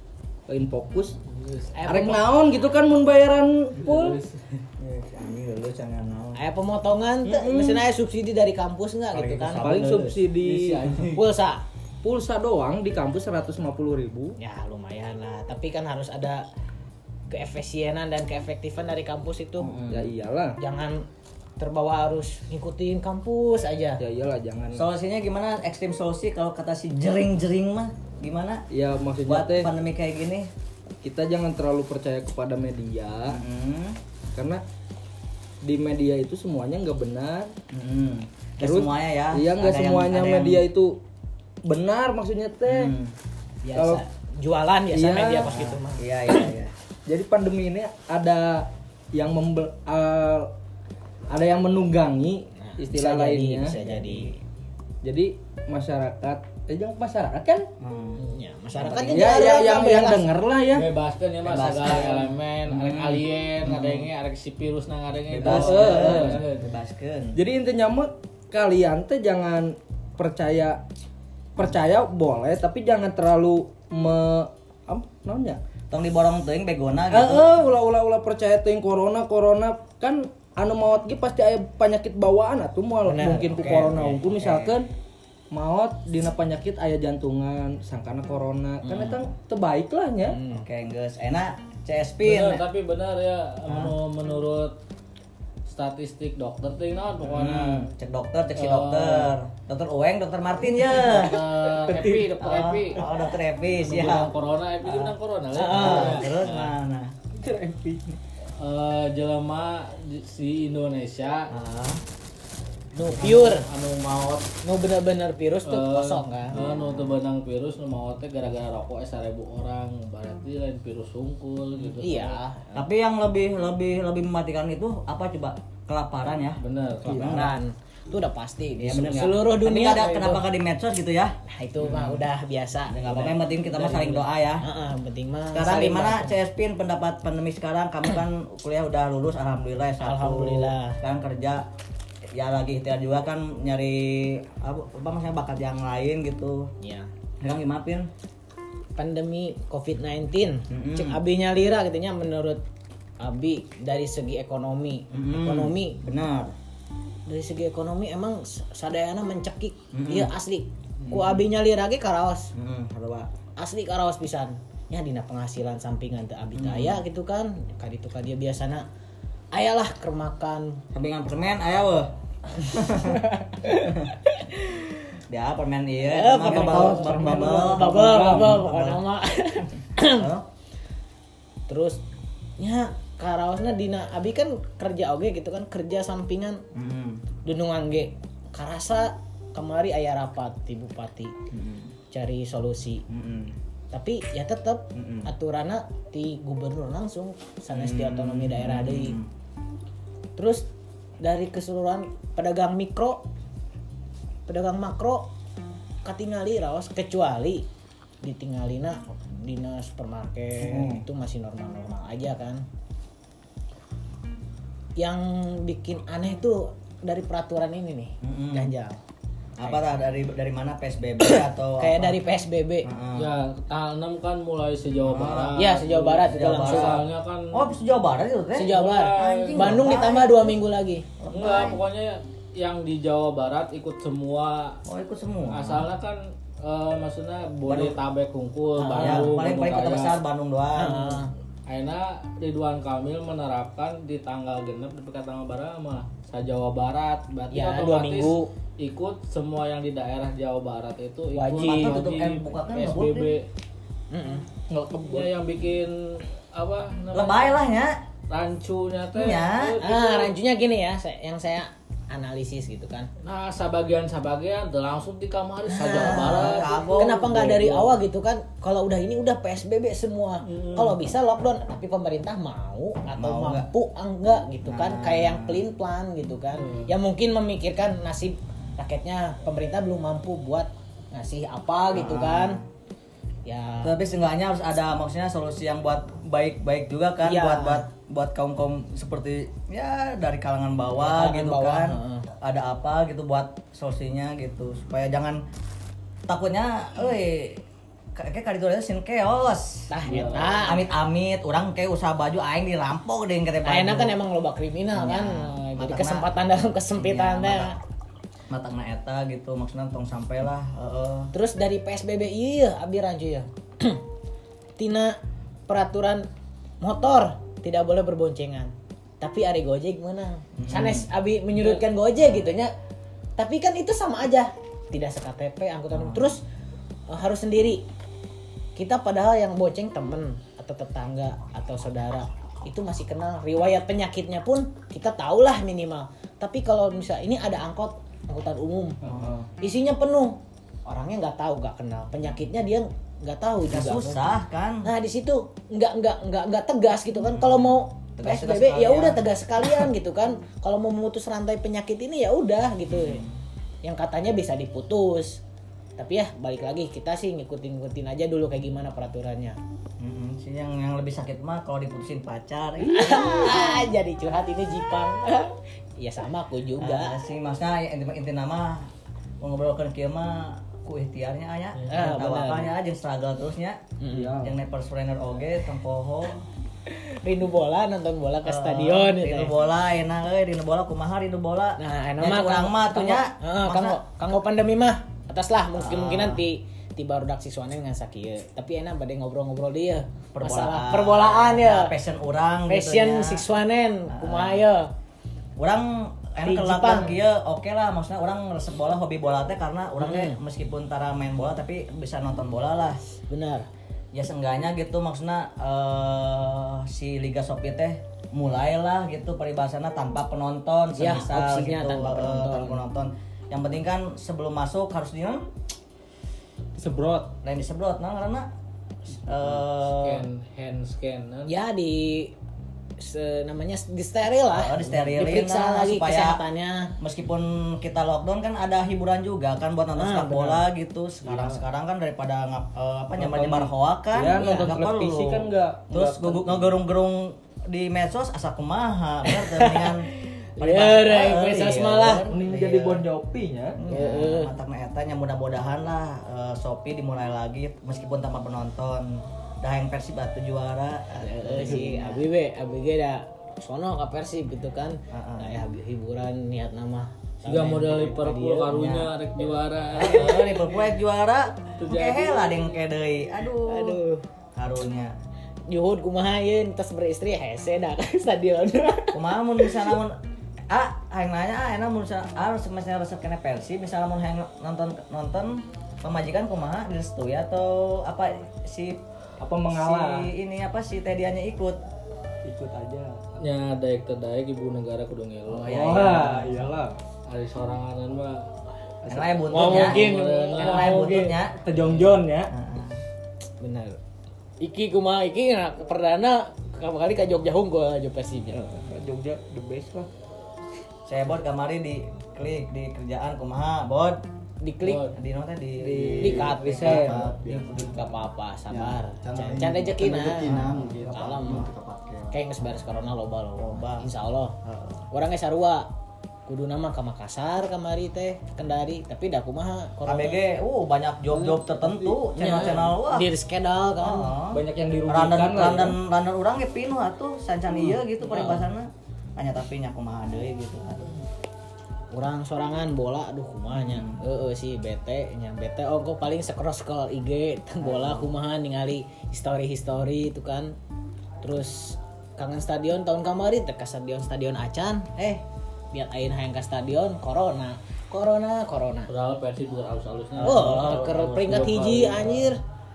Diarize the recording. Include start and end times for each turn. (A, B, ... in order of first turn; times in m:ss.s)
0:00.5-0:01.2 A
0:01.3-0:01.7 B
0:01.7-0:02.6 C
0:01.9-0:04.1 A
0:03.8-0:04.6 B
0:03.9-0:04.1 C
0:04.8-0:06.4 D
0:06.4-0:10.0 C
0:07.3-0:07.8 A
0:09.1-0:10.2 D
0:09.5-0:11.0 A
0:10.4-0:11.2 B
0:11.1-0:11.6 C
0:12.0-0:14.4 A
0:14.4-0:16.4 C
0:17.3-0:19.7 C
0:19.6-0:20.1 D
0:19.9-0:20.6 A
0:20.6-0:21.0 C
0:21.6-0:24.0 C
0:24.0-0:24.8 A
0:24.8-0:28.6 D
0:28.7-0:29.7 A
0:29.2-0:30.5 D
0:31.0-0:33.4 A
0:33.3-0:34.0 D
0:34.4-0:34.6 A
0:35.6-0:37.5 A
0:37.7-0:40.6 D
0:38.6-0:40.9 A
0:41.6-0:43.0 A
0:42.7-0:43.1 D
0:43.6-0:46.5 C
0:43.7-0:44.0 A
0:44.9-0:45.6 A
0:45.5-0:46.7 D
0:47.1-0:50.5 A
0:51.3-0:53.8 A
0:52.6-0:54.3 C
0:53.7-0:54.4 D
0:55.0-0:57.7 A
0:57.8-0:58.2 D
0:58.2-1:00.3 C
0:58.7-0:59.8 D
0:59.1-1:00.9 A
1:00.7-1:06.6 B
1:01.4-1:04.1 D
1:05.3-1:07.4 D
1:05.4-1:06.4 A
1:07.4-1:10.8 A
1:11.6-1:15.6 A
1:15.9-1:17.5 D
1:17.1-1:24.9 A
1:23.0-1:24.2 C
1:23.2-1:24.8 D
1:25.5-1:30.4 A
1:28.8-1:29.2 C
1:30.3-1:30.6 C
1:30.5-1:32.6 D
1:32.2-1:34.8 B
1:33.7-1:34.0 D
1:35.7-1:37.9 B
1:37.2-1:45.2 D
1:38.6-1:39.3 B
1:41.0-1:43.0 B
1:43.8-1:46.3 B
1:45.5-1:46.3 C
1:45.7-1:47.2 D
1:47.3-1:48.2 A
1:48.6-1:51.5 B
1:51.5-1:52.0 D
1:52.9-1:53.7 C
1:53.2-1:54.5 B
1:54.6-1:56.6 C
1:55.7-2:02.4 B
1:56.6-1:56.9 D
2:02.0-2:02.8 C
2:02.8-2:07.6 D
2:06.6-2:07.1 B
2:07.0-2:07.4 A
2:07.2-2:10.4 C
2:08.8-2:12.2 D
2:11.5-2:13.3 C
2:12.9-2:14.6 D
2:13.8-2:14.2 B
2:14.6-2:16.4 C
2:15.5-2:21.6 D
2:20.0-2:21.0 C
2:22.3-2:26.7 D
2:26.8-2:27.1 C
2:27.4-2:28.1 D
2:29.0-2:32.6 C
2:30.7-2:31.2 D
2:33.2-2:36.0 C
2:35.1-2:36.5 D
2:37.3-2:42.5 C
2:39.9-2:40.3 D
2:41.1-2:41.5 D
2:42.6-2:43.3 D
2:43.6-2:48.9 C
2:46.6-2:47.0 D
2:49.5-2:50.8 C
2:50.9-2:52.1 D
2:52.6-2:54.8 C
2:52.7-2:53.3 D
2:53.9-2:54.2 D
2:55.3-2:59.0 D
2:56.0-3:00.3 C
2:56.4-2:58.6 A
3:00.1-3:00.4 D
3:01.7-3:02.0 C
3:02.6-3:06.6 C
3:06.7-3:07.2 D
3:07.4-3:11.4 C
3:11.5-3:11.9 D
3:12.1-3:13.0 C
3:13.1-3:13.5 D
3:13.9-3:19.2 C
3:15.0-3:15.3 D
3:17.7-3:19.3 D
3:20.4-3:20.7 C
3:21.2-3:23.2 C
3:24.5-3:25.3 C
3:26.0-3:27.7 C
3:28.2-3:32.6 C
3:30.7-3:31.0 A
3:35.0-3:39.0 C
3:38.2-3:38.7 D
3:39.6-3:42.2 D
3:41.2-3:42.9 C
3:42.8-3:43.3 D
3:43.2-3:47.7 B
3:45.0-3:45.6 D
3:45.6-3:47.0 C
3:46.3-3:50.6 D
3:48.6-3:51.0 C
3:48.7-3:49.8 B
3:51.2-3:51.8 D
3:51.3-3:54.8 B
3:54.9-3:55.9 D
3:55.5-4:00.2 B
3:57.7-3:58.0 D
3:58.8-3:59.3 C
3:59.0-4:01.2 D
4:00.8-4:01.3 C
4:01.7-4:13.4 B
4:07.5-4:08.5 C
4:11.3-4:12.1 C
4:11.7-4:13.4 D
4:14.1-4:14.5 C
4:14.7-4:15.3 A
4:14.9-4:17.6 B
4:17.1-4:18.0 D
4:18.3-4:20.3 B
4:19.1-4:19.8 D
4:19.8-4:23.1 C
4:23.2-4:27.8 B
4:25.7-4:42.6 C
4:25.8-4:27.3 D
4:30.5-4:31.0 B
4:33.1-4:33.7 D
4:34.6-4:35.6 D
4:36.6-4:36.9 B
4:41.9-4:42.6 D
4:43.5-4:43.9 C
4:43.8-4:55.4 D
4:47.2-4:47.9 C
4:51.0-4:52.3 C
4:56.3-4:57.6 D
4:58.2-5:04.2 D
4:59.9-5:00.8 C
5:00.1-5:00.4 B
5:03.6-5:07.8 C
5:04.9-5:06.3 D
5:07.0-5:07.7 D
5:08.5-5:11.3 D
5:11.3-5:14.0 C
5:14.8-5:16.3 C
5:16.8-5:22.7 C
5:20.6-5:21.1 D
5:23.4-5:26.4 C
5:25.9-5:26.4 D
5:27.1-5:27.8 C
5:28.8-5:39.0 C
5:39.0-5:39.5 A
5:39.0-5:39.4 D
5:39.6-5:53.3 C
5:43.7-5:44.9 D
5:47.2-5:49.2 D
5:52.9-5:53.4 D
5:53.8-5:55.4 C
5:56.0-5:59.6 C
6:00.0-6:03.9 D
6:02.8-6:07.2 C
6:06.8-6:08.9 D
6:09.4-6:13.8 D
6:11.9-6:12.7 C
6:14.0-6:14.3 C
6:14.1-6:14.6 A
6:14.4-6:16.4 D
6:16.9-6:19.6 C
6:18.4-6:24.0 D
6:21.8-6:31.9 C
6:25.8-6:26.4 D
6:30.4-6:33.4 D
6:32.7-6:34.9 C
6:34.1-6:34.6 D
6:35.6-6:43.0 D
6:36.4-6:37.2 C
6:40.0-6:40.4 C
6:43.3-6:43.7 C
6:44.1-6:55.5 D
6:50.9-6:52.8 C
6:56.8-6:57.4 A
6:57.4-6:58.5 D
6:59.2-6:59.6 A
6:59.2-7:00.3 D
6:59.9-7:01.5 B
7:01.5-7:02.3 C
7:03.0-7:06.9 C
7:04.5-7:06.4 D
7:07.0-7:20.1 D
7:10.0-7:10.6 C
7:11.2-7:11.6 A
7:13.2-7:16.6 A
7:14.3-7:14.7 C
7:19.3-7:22.2 C
7:20.6-7:23.0 D
7:22.2-7:23.8 A
7:23.8-7:32.2 D
7:23.8-7:24.5 C
7:31.2-7:38.7 C
7:35.1-7:35.6 D
7:37.5-7:40.6 B
7:38.7-7:39.1 D
7:39.9-7:44.0 D
7:41.8-7:42.7 B
7:43.7-7:44.2 C
7:44.6-7:45.1 D
7:45.7-7:49.9 C
7:49.1-7:50.2 D
7:50.7-7:59.0 D
7:59.4-8:00.3 A
7:59.7-8:01.8 D
8:02.4-8:03.4 A
8:03.4-8:06.2 B
8:05.5-8:06.7 D
8:05.6-8:07.0 A
8:07.3-8:08.5 B
8:09.0-8:09.8 A
8:09.1-8:10.1 D
8:09.5-8:11.2 C
8:09.6-8:11.2 B
8:10.6-8:11.7 D
8:10.9-8:12.5 A
8:12.5-8:13.0 D
8:13.6-8:14.0 C
8:14.6-8:18.6 C
8:18.5-8:20.1 A
8:21.1-8:24.2 D
8:24.6-8:25.1 C
8:24.8-8:25.2 B
8:25.1-8:27.3 D
8:25.8-8:27.9 A
8:26.2-8:27.2 C
8:26.7-8:28.2 E
8:27.7-8:31.7 C
8:28.7-8:32.4 E
8:32.3-8:34.6 C
8:33.6-8:34.1 D
8:35.1-8:35.9 C
8:36.5-8:40.4 C
8:40.0-8:43.3 D
8:42.4-8:44.3 C
8:44.0-8:51.2 D
8:44.5-8:46.0 A
8:48.3-8:48.7 C
8:52.1-9:00.8 C
8:53.7-8:54.2 D
8:57.8-8:58.3 D
9:01.4-9:05.4 C
9:05.9-9:09.1 C
9:09.1-9:12.5 B
9:10.4-9:10.9 D
9:10.4-9:12.6 C